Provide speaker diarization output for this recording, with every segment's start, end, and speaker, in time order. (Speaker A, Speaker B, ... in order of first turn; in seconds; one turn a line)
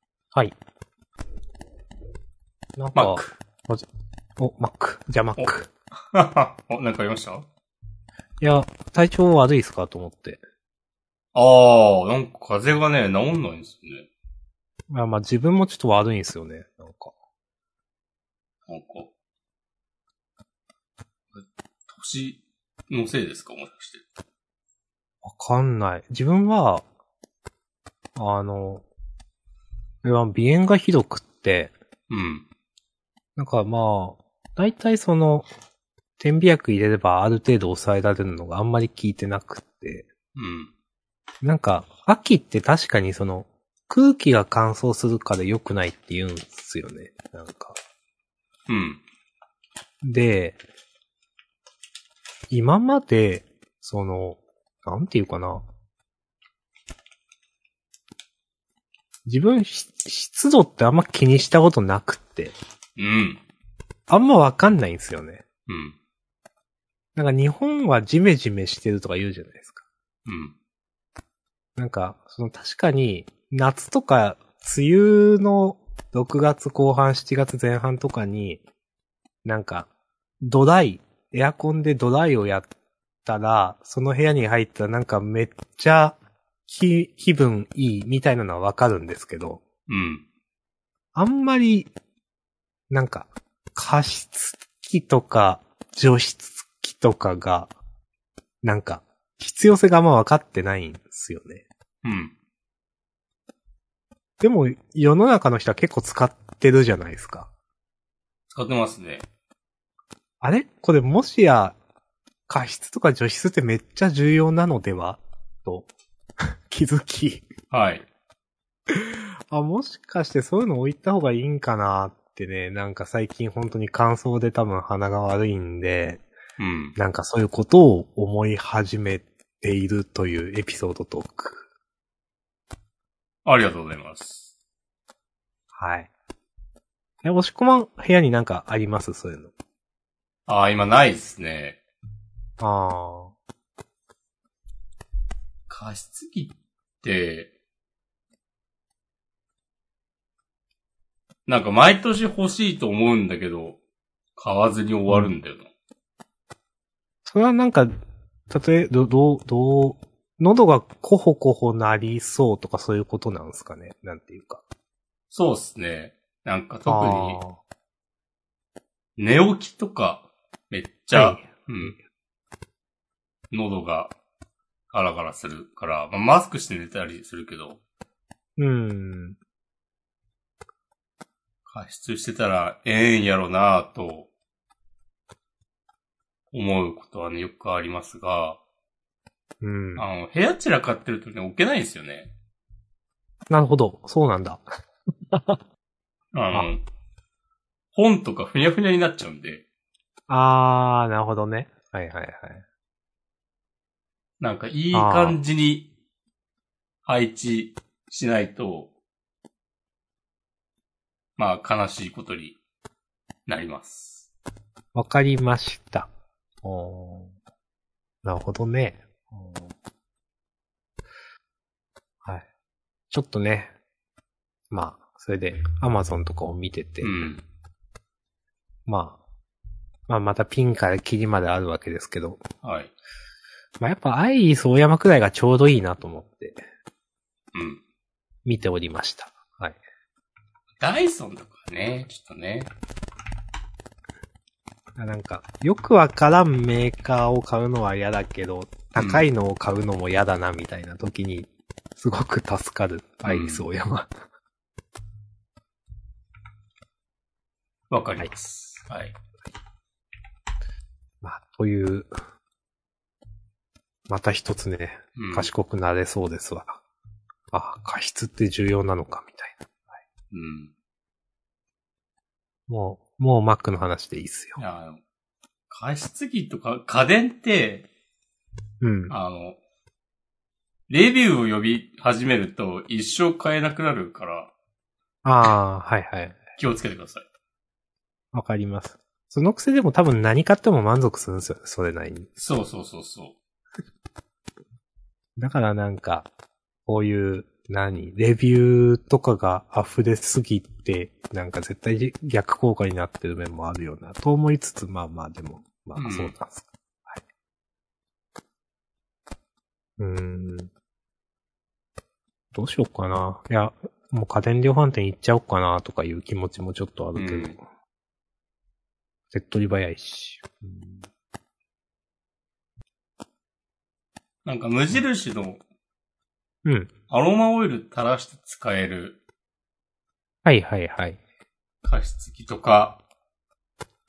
Speaker A: 2.8-3.9
Speaker B: 2.9-3.3
Speaker A: 4.4-5.7
Speaker B: 5.4-7.5
Speaker A: 8.4-10.4
Speaker B: 11.3-14.1
Speaker A: 14.9-17.1
Speaker B: 18.7-19.1
Speaker B: 21.3-24.1
Speaker A: 25.2-26.8
Speaker A: 28.2-28.8
Speaker A: 30.0-31.7
Speaker B: 32.1-32.5
Speaker A: 33.4-35.5
Speaker A: 36.2-40.1
Speaker B: 40.3-40.7
Speaker A: 41.4-47.8
Speaker B: 48.7-49.0
Speaker A: 50.0-50.6
Speaker A: 52.5-55.7
Speaker A: 59.2-62.5
Speaker B: 63.0-63.4
Speaker A: 64.1-65.4
Speaker B: 65.7-66.0
Speaker A: 67.2-69.8
Speaker B: 70.3-70.5
Speaker A: 71.8-78.6
Speaker A: 79.4-79.9
Speaker A: 80.4-82.7
Speaker A: 83.2-89.6
Speaker B: 89.9-90.2
Speaker A: 91.2-91.9
Speaker A: 92.9-97.7
Speaker A: 98.6-101.7
Speaker B: 102.0-102.3
Speaker A: 104.4-107.5
Speaker B: 108.5-109.3
Speaker A: 110.4-111.8
Speaker A: 112.5-115.9
Speaker A: 116.4-117.5
Speaker B: 117.7-118.1
Speaker A: 118.9-126.2
Speaker B: 126.6-127.0
Speaker A: 127.0-131.6
Speaker B: 133.4-134.5
Speaker A: 135.7-136.1
Speaker A: 137.2-139.5
Speaker B: 140.5-141.8
Speaker A: 142.6-143.3
Speaker B: 145.7-147.5
Speaker B: 151.5-153.8
Speaker B: 154.4-155.7
Speaker A: 157.3-157.9
Speaker A: 158.5-164.6
Speaker B: 165.3-167.4
Speaker A: 166.9-167.6
Speaker B: 169.2-172.0
Speaker A: 171.1-171.9
Speaker B: 173.5-174.1
Speaker B: 174.9-177.8
Speaker A: 178.6-179.4
Speaker B: 181.7-184.3
Speaker B: 186.5-188.6
Speaker A: 189.6-190.0
Speaker B: 189.9-192.3
Speaker A: 193.5-194.6
Speaker A: 195.3-195.6
Speaker B: 196.3-196.8
Speaker B: 197.9-199.6
Speaker A: 200.3-202.6
Speaker B: 204.4-205.9
Speaker A: 204.9-205.4
Speaker B: 207.0-208.9
Speaker B: 211.4-212.6
Speaker B: 213.5-214.3
Speaker A: 214.9-216.1
Speaker A: 216.6-217.3
Speaker A: 218.2-219.7
Speaker A: 223.1-223.7
Speaker A: 224.7-227.3
Speaker B: 227.0-227.4
Speaker A: 228.9-229.2
Speaker A: 230.1-232.4
Speaker B: 232.6-232.9
Speaker A: 233.8-236.6
Speaker B: 237.5-237.8
Speaker A: 238.4-239.8
Speaker B: 240.8-242.7
Speaker A: 244.9-254.1
Speaker B: 249.0-249.3
Speaker B: 253.2-253.7
Speaker B: 257.9-259.1
Speaker A: 261.2-262.1
Speaker A: 264.1-266.8
Speaker B: 265.1-265.5
Speaker A: 267.5-270.0
Speaker B: 270.3-270.7
Speaker A: 272.7-274.6
Speaker B: 274.6-275.0
Speaker B: 275.7-277.9
Speaker A: 278.8-279.1
Speaker B: 279.1-279.6
Speaker B: 280.9-284.5
Speaker A: 285.2-286.4
Speaker B: 286.6-287.2
Speaker A: 288.3-292.3
Speaker B: 292.4-293.4
Speaker A: 295.4-296.3
Speaker A: 296.9-307.2
Speaker B: 306.0-306.3
Speaker A: 310.0-310.7
Speaker A: 312.5-317.6
Speaker B: 317.1-317.6
Speaker A: 319.3-321.1
Speaker B: 324.4-325.6
Speaker A: 326.6-326.9
Speaker B: 327.1-329.2
Speaker A: 330.4-331.2
Speaker B: 331.8-333.0